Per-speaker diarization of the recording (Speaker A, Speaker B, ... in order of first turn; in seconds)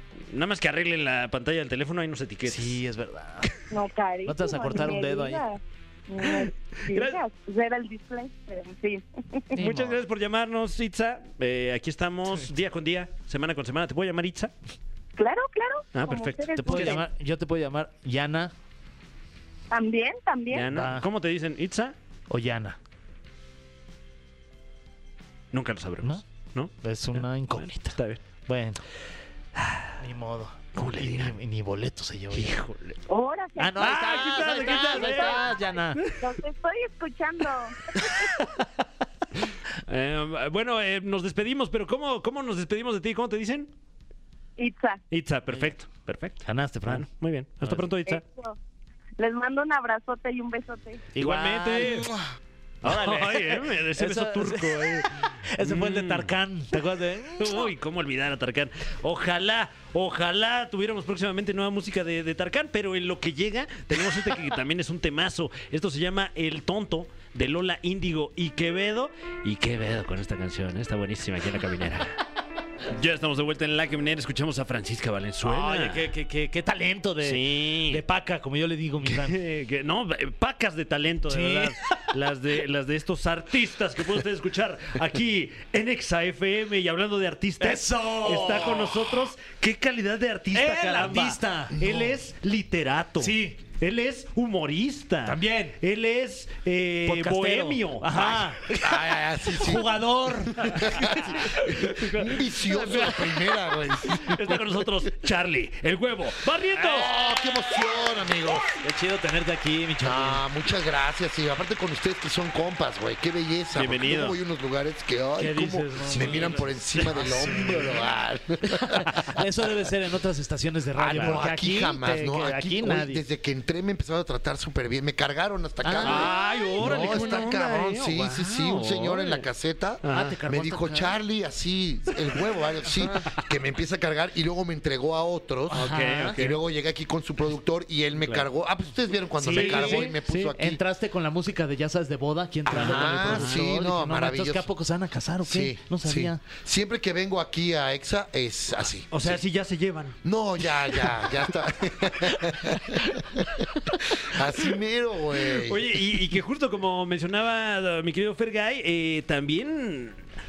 Speaker A: 0.3-2.8, 6.2-7.2, 9.6-14.5, 15.9-17.0, 20.5-21.9, 25.5-28.2, 29.6-30.0, 30.8-31.4, 32.3-33.0, 33.8-36.1, 39.9-43.7, 45.1-48.2, 51.2-52.1, 52.8-56.4, 57.4-72.2, 72.9-76.1, 77.2-78.0, 79.0-98.8, 100.7-103.5, 104.1-107.1, 113.7-114.4, 116.1-117.8, 121.1-121.4, 126.0-129.5, 130.0-130.4, 135.7-136.6, 138.2-138.5, 139.4-140.5, 142.7-143.7, 149.1-150.2, 155.5-160.2
Speaker B: 2.5-3.5, 4.3-5.4, 9.5-10.0, 16.6-18.5, 20.7-21.1, 22.3-22.8, 26.8-28.8, 30.0-32.6, 33.6-36.0, 46.4-47.1, 51.1-57.7, 75.4-79.4, 81.3-81.8, 87.6-89.3, 90.5-91.8, 93.2-93.6, 95.2-95.8, 97.0-101.4, 106.8-107.9, 108.7-110.4, 115.4-118.0, 118.7-123.2, 125.8-127.5, 130.1-131.2, 135.7-136.4, 139.4-146.4
Speaker C: 3.7-9.6, 15.2-17.0, 19.7-20.7, 33.1-38.3, 44.6-45.0, 48.1-48.6, 49.2-51.0
Speaker D: 91.7-92.2, 98.8-99.9, 100.7-104.6, 106.9-108.7, 110.0-119.4, 121.0-140.8, 142.7-144.7, 145.5-149.4, 150.2-156.0